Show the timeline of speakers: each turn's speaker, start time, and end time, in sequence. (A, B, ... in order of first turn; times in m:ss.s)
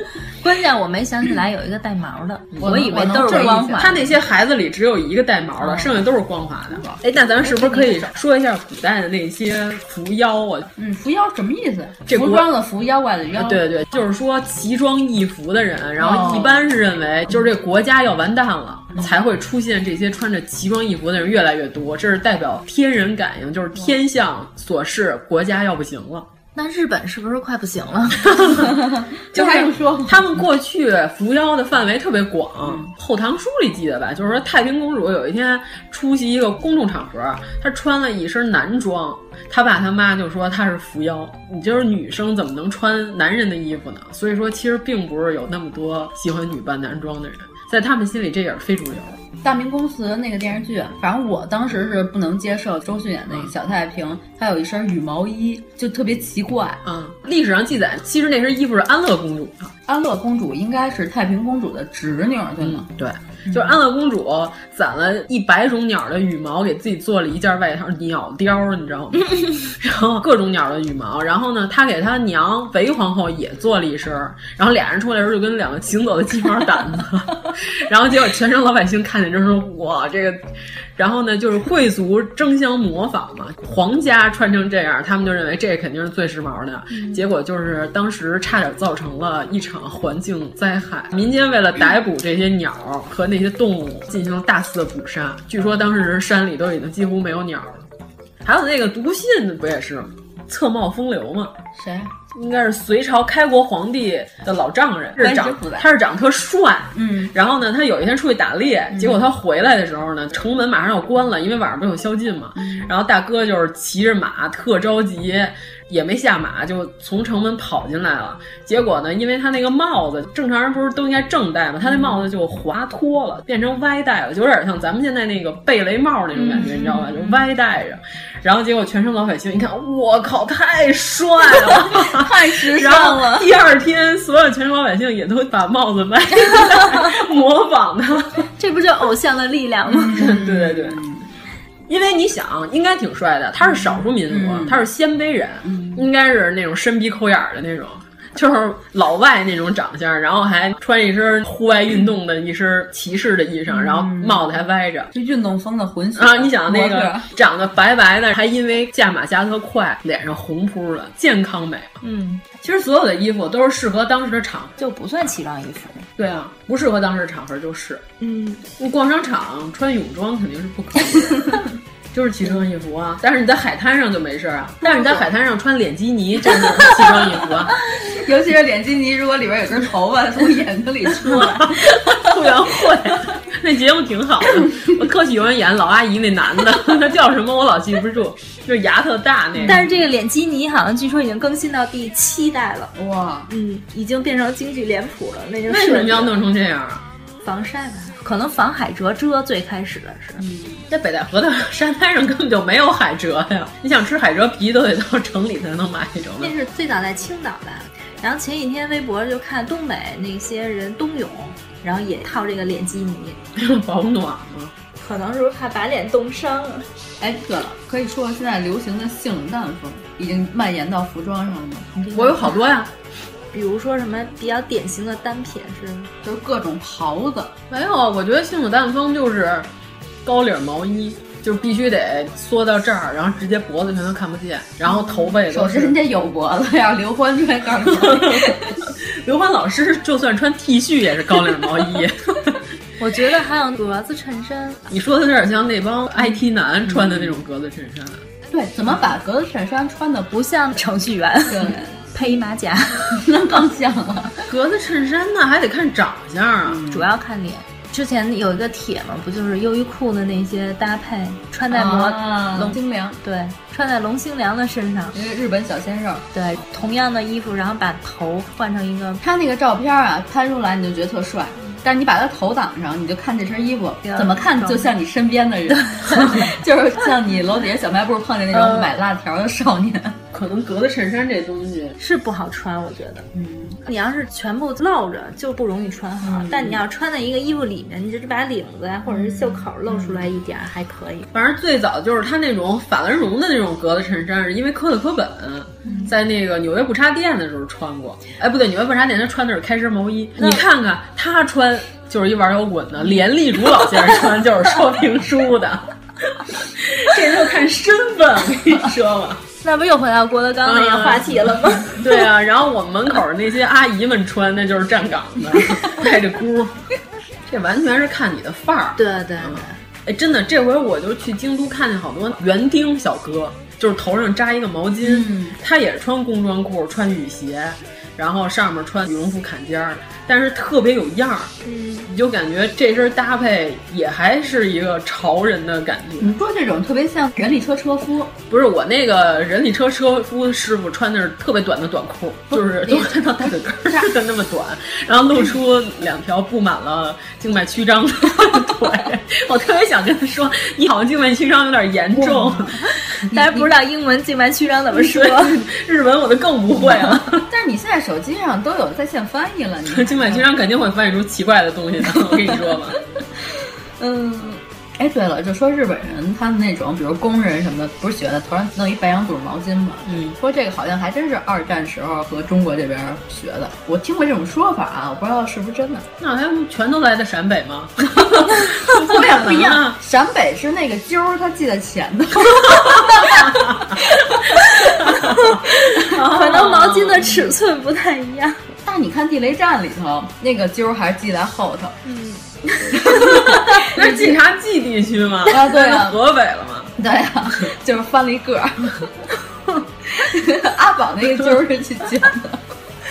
0:00.4-0:04.0 A
0:02.5-0:10.7 B
0:02.6-0:04.1 C
0:05.6-0:06.0 C
0:06.7-0:08.1 C
0:10.8-0:13.6 C
0:12.1-0:12.5 B
0:13.3-0:26.3 B
0:16.0-0:16.6 C
0:26.5-0:28.4 A
0:28.3-0:28.7 B
0:28.6-0:30.4 C
0:29.3-0:49.2 B
0:32.6-0:32.9 C
0:49.4-0:56.8 C
0:56.8-0:59.7 B
0:59.9-1:02.9 C
1:02.6-1:20.4 B
1:21.0-1:37.8 B
1:38.4-1:41.5 B
1:41.7-1:42.1 C
1:42.3-2:18.5 B
1:45.2-1:45.9 C
1:46.9-1:47.3 C
1:48.9-1:49.2 C
1:52.6-1:52.9 C
2:01.8-2:02.2 C
2:06.4-2:07.4 C
2:11.6-2:13.5 C
2:18.6-2:20.2 A
2:19.8-2:21.3 C
2:20.2-2:21.0 B
2:21.9-2:35.1 B
2:23.6-2:24.8 C
2:25.6-2:26.0 C
2:33.7-2:34.5 C
2:35.1-2:37.3 C
2:36.2-2:42.0 B
2:42.0-2:42.4 A
2:42.6-2:44.7 B
2:44.8-2:46.1 A
2:46.2-2:48.0 B
2:48.2-2:48.6 A
2:48.8-2:57.8 B
2:58.0-3:02.3 C
3:01.2-3:09.9 B
3:09.5-3:09.9 C
3:09.6-3:12.9 A
3:12.9-3:13.5 C
3:13.5-3:16.3 A
3:15.7-3:17.0 B
3:17.4-3:20.4 A
3:20.4-3:20.8 C
3:20.9-3:26.5 B
3:26.4-3:33.4 A
3:33.6-3:34.7 B
3:35.0-3:36.9 A
3:37.2-3:42.0 C
3:42.1-3:42.4 A
3:42.1-3:42.9 B
3:43.5-3:46.1 A
3:46.2-3:47.6 C
3:47.7-3:49.7 B
3:50.2-3:56.0 B
3:55.4-3:58.8 C
3:57.8-4:02.6 B
4:03.0-4:04.8 A
4:04.9-4:08.2 B
4:06.9-4:07.4 C
4:08.5-4:10.4 C
4:10.3-4:13.2 A
4:11.5-4:12.0 C
4:13.1-4:14.4 C
4:14.5-4:16.8 B
4:16.6-4:17.1 C
4:16.9-4:25.2 A
4:21.7-4:23.2 C
4:25.1-4:26.2 C
4:26.3-4:29.2 A
4:29.2-4:40.2 C
4:34.0-4:34.9 A
4:35.9-4:36.4 A
4:38.5-4:38.9 B
4:40.3-4:42.0 B
4:42.0-4:43.3 A
4:43.3-4:43.8 C
4:43.8-4:51.3 A
4:46.2-4:46.8 C
4:49.1-4:50.2 C
4:51.3-5:09.4 B
5:00.4-5:00.6 A
5:09.6-5:12.0 A
5:10.6-5:16.8 B
5:17.5-5:31.5 B
5:19.0-5:19.8 A
5:25.0-5:25.6 C
5:31.6-5:32.1 A
5:32.1-5:36.3 B
5:36.2-5:38.3 C
5:38.5-5:52.9 B
5:42.5-5:44.1 C
5:52.1-5:53.7 C
5:53.3-5:55.6 A
5:54.9-5:57.4 B
5:56.8-6:00.5 C
5:59.8-6:03.0 B
6:02.1-6:02.8 C
6:04.0-6:16.1 C
6:10.1-6:10.4 B
6:16.2-6:20.0 B
6:19.2-6:24.6 C
6:23.2-6:23.8 B
6:25.0-6:27.3 B
6:25.0-6:28.6 A
6:28.8-6:32.0 C
6:32.0-6:33.1 A
6:32.8-6:34.3 C
6:33.2-6:36.9 B
6:35.5-6:36.2 C
6:37.0-6:39.1 C
6:40.1-6:42.6 C